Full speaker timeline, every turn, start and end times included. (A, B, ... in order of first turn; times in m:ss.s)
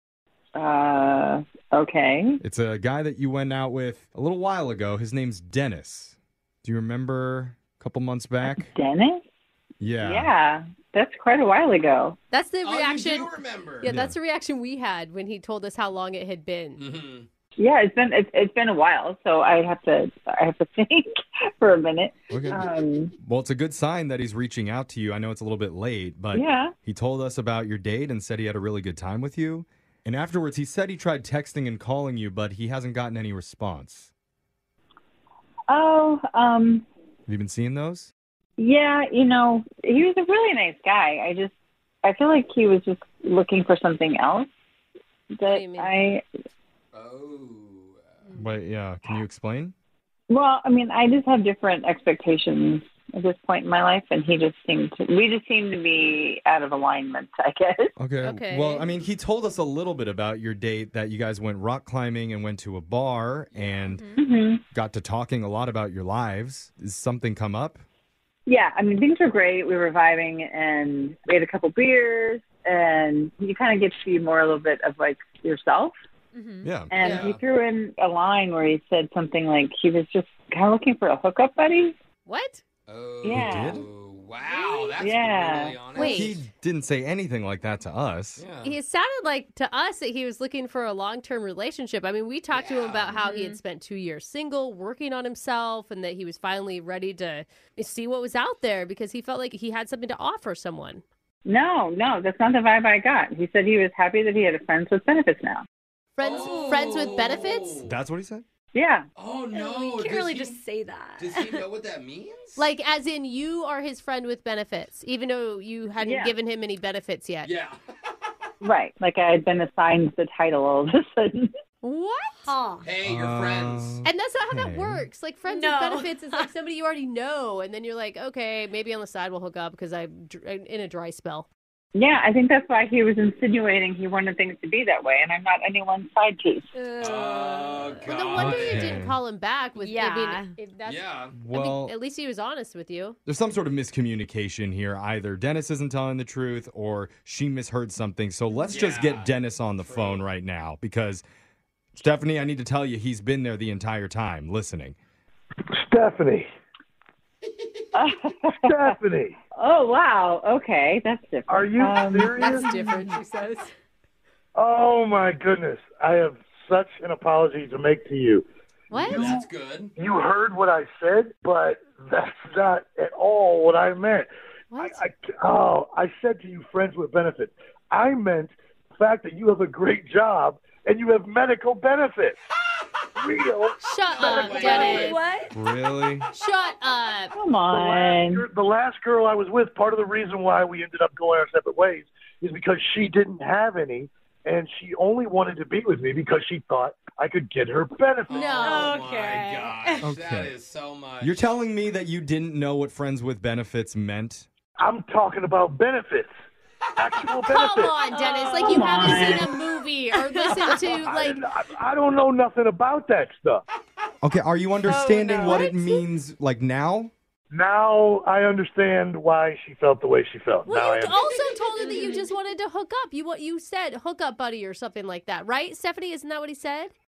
0:00.5-0:02.4 A
0:02.4-0:08.7 B
0:08.4-0:09.2 A
0:09.8-0:10.3 B
0:10.0-0:12.2 A
0:12.3-0:16.8 C
0:12.6-0:13.9 D
0:13.8-0:14.2 B
0:16.8-0:17.3 D
0:17.6-0:23.1 A
0:22.3-0:22.7 B
0:23.2-0:34.1 B
0:26.3-0:26.7 A
0:35.7-0:36.9 A
0:37.3-0:38.1 B
0:38.6-0:41.5 A
0:42.0-0:44.5 A
0:45.3-0:46.2 A
0:45.5-0:45.9 C
0:46.9-0:48.5 D
0:48.3-0:49.7 B
0:50.3-0:57.9 A
0:58.0-1:04.2 B
0:58.2-0:58.9 C
1:03.5-1:04.0 D
1:04.2-1:04.6 A
1:04.7-1:07.8 B
1:08.5-1:15.9 A
1:16.3-1:16.8 E
1:16.6-1:16.9 B
1:16.9-1:21.9 A
1:17.0-1:17.4 D
1:22.2-1:22.6 C
1:22.9-1:26.4 D
1:23.2-1:23.8 A
1:23.3-1:23.9 B
1:25.0-1:26.0 A
1:26.0-1:26.4 C
1:26.0-1:28.4 B
1:28.4-1:28.8 D
1:28.6-1:41.0 C
1:32.5-1:33.2 D
1:33.2-1:33.6 E
1:41.4-1:45.6 A
1:46.2-1:47.8 C
1:46.2-1:47.9 D
1:46.4-1:47.4 E
1:47.8-1:48.4 B
1:48.7-1:49.1 A
1:49.2-1:50.6 D
1:49.5-1:51.7 E
1:51.2-1:52.6 D
1:52.6-1:57.5 C
1:56.0-1:56.4 A
1:57.4-1:57.8 D
1:58.6-2:01.5 A
2:01.8-2:02.5 C
2:02.4-2:02.9 E
2:02.8-2:04.0 D
2:03.0-2:05.1 B
2:04.0-2:11.5 C
2:05.4-2:06.5 E
2:11.9-2:16.7 A
2:16.7-2:18.0 E
2:17.0-2:19.0 D
2:18.0-2:23.2 C
2:18.3-2:19.2 B
2:19.8-2:20.5 E
2:20.8-2:21.3 D
2:21.3-2:21.9 B
2:23.2-2:31.2 B
2:28.7-2:30.2 D
2:31.9-2:35.0 B
2:35.7-2:36.5 F
2:37.9-2:38.8 A
2:38.6-2:39.4 F
2:39.5-2:42.4 A
2:41.5-2:42.7 F
2:42.4-2:43.7 C
2:42.8-2:43.1 E
2:44.5-2:54.3 F
2:48.9-2:49.3 C
2:49.0-2:49.9 D
2:54.7-2:55.0 C
2:54.8-3:02.4 F
3:03.2-3:05.0 F
3:03.8-3:05.2 C
3:04.1-3:05.2 D
3:04.5-3:05.5 E
3:05.5-3:06.3 B
3:06.3-3:07.3 C
3:07.3-3:08.4 A
3:07.6-3:18.9 F
3:18.3-3:21.5 D
3:18.3-3:18.9 C
3:18.6-3:20.0 E
3:20.0-3:20.5 B
3:21.2-3:24.5 B
3:24.8-3:26.3 F
3:27.0-3:28.0 F
3:27.5-3:31.4 C
3:28.1-3:29.6 E
3:28.6-3:29.4 A
3:30.1-3:31.0 E
3:30.9-3:33.6 F
3:34.2-3:37.1 B
3:34.8-3:35.8 E
3:35.4-3:36.0 C
3:37.5-3:41.2 F
3:40.6-3:46.9 C
3:41.8-3:42.3 E